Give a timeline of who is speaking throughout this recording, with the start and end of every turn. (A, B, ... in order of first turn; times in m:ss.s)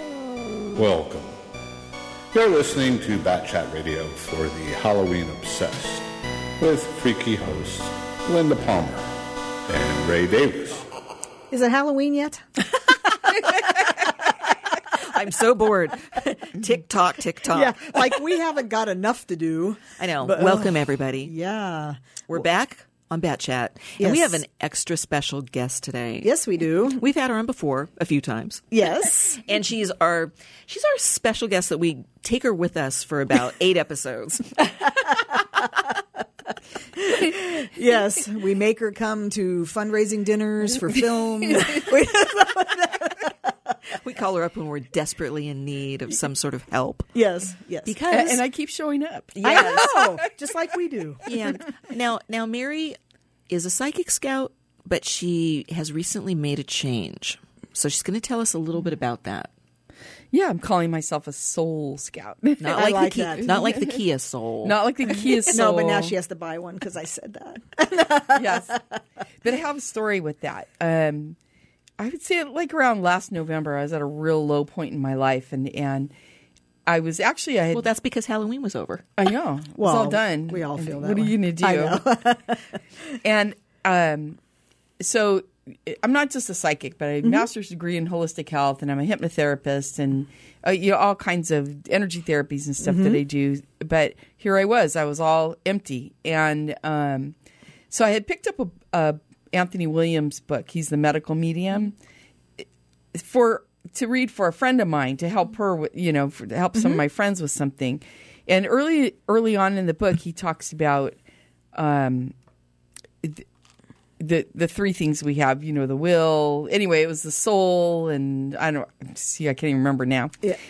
0:00.7-0:01.4 A
0:02.3-0:10.8 A
0:11.5-0:12.4 B
0:15.0-0:18.2 C
0:17.5-0:22.0 B
0:20.0-0:21.3 C
0:22.3-0:28.6 C
0:24.0-0:24.4 B
0:26.2-0:27.0 B
0:28.7-0:29.4 B
0:29.4-0:34.6 C
0:37.0-0:43.5 B
0:44.0-0:47.1 C
0:47.1-0:47.9 B
0:47.8-0:48.4 C
0:48.1-0:50.2 D
0:49.3-0:50.1 C
0:49.4-0:51.2 B
0:51.2-0:53.0 C
0:53.5-0:59.5 C
1:00.3-1:04.0 D
1:02.6-1:04.8 C
1:02.7-1:03.5 B
1:04.6-1:06.2 D
1:05.5-1:08.8 B
1:08.3-1:08.7 D
1:09.4-1:11.4 D
1:12.0-1:16.1 D
1:16.9-1:17.9 D
1:17.7-1:19.0 C
1:19.2-1:22.0 D
1:19.8-1:22.8 B
1:23.2-1:24.4 D
1:25.0-1:37.3 D
1:27.2-1:27.5 B
1:32.8-1:33.2 B
1:37.9-1:41.9 D
1:43.1-1:51.2 D
1:51.7-1:52.3 D
1:54.2-2:00.3 D